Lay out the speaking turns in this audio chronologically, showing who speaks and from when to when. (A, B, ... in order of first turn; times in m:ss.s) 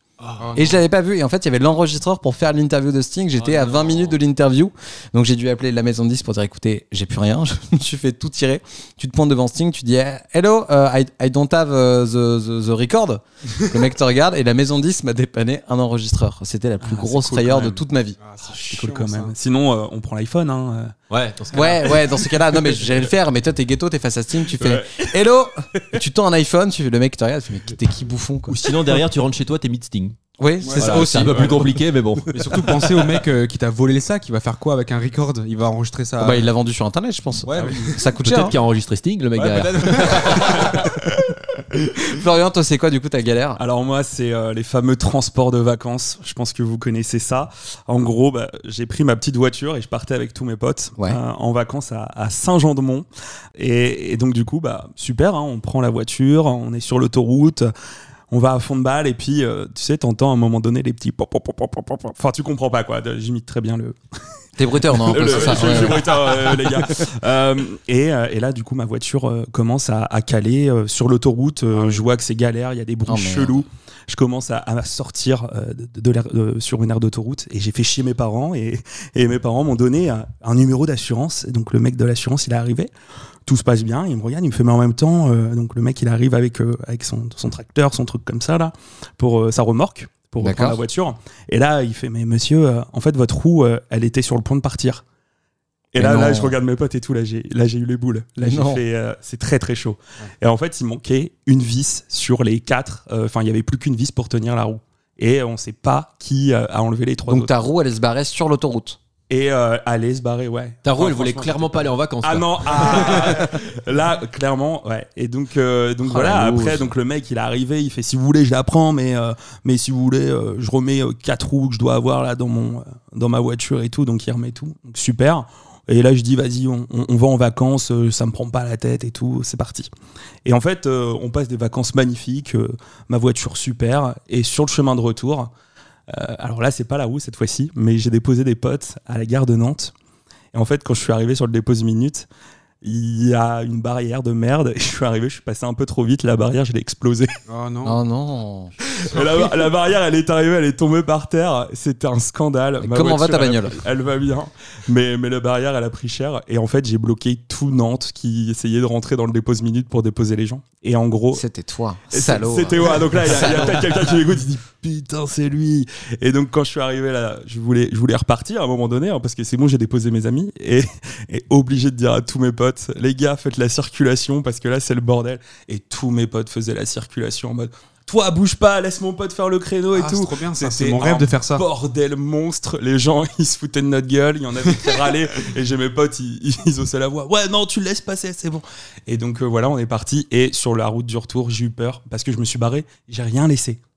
0:00.4-0:00.8 A
0:00.5-0:18.2 B
0:03.4-0:04.1 C
0:16.8-0:17.8 D
0:18.2-0:19.3 A
0:18.7-0:20.9 D
0:21.1-0:22.0 C
0:21.5-0:28.6 B
0:24.6-0:25.1 D
0:28.5-0:30.2 C
0:30.4-0:31.6 B
0:30.6-0:31.6 A
0:30.8-0:32.9 C
0:32.3-0:36.5 A
0:36.2-0:38.5 B
0:37.4-0:38.0 A
0:37.5-0:37.9 D
0:38.2-0:40.8 C
0:39.3-0:40.8 A
0:40.5-0:41.1 D
0:42.1-0:43.6 B
0:43.6-0:57.7 D
0:58.3-1:04.0 D
1:04.6-1:06.0 B
1:04.9-1:22.9 D
1:13.0-1:13.5 B
1:23.4-1:35.0 D
1:30.4-1:30.8 B
1:35.9-1:47.5 D
1:36.0-1:36.5 B
1:38.4-1:38.8 B
1:47.3-1:49.0 B
1:49.3-2:09.9 D
1:50.8-1:53.5 C
1:56.0-1:56.7 C
1:56.4-1:56.8 B
2:10.4-2:15.5 D
2:16.1-2:19.9 D
2:20.5-2:22.3 D
2:22.8-2:27.3 D
2:27.5-2:28.0 A
2:27.8-2:28.7 B
2:29.0-2:41.4 D
2:29.1-2:29.5 A
2:32.8-2:33.8 B
2:41.3-2:43.8 B
2:42.1-3:13.8 D
2:59.9-3:01.6 A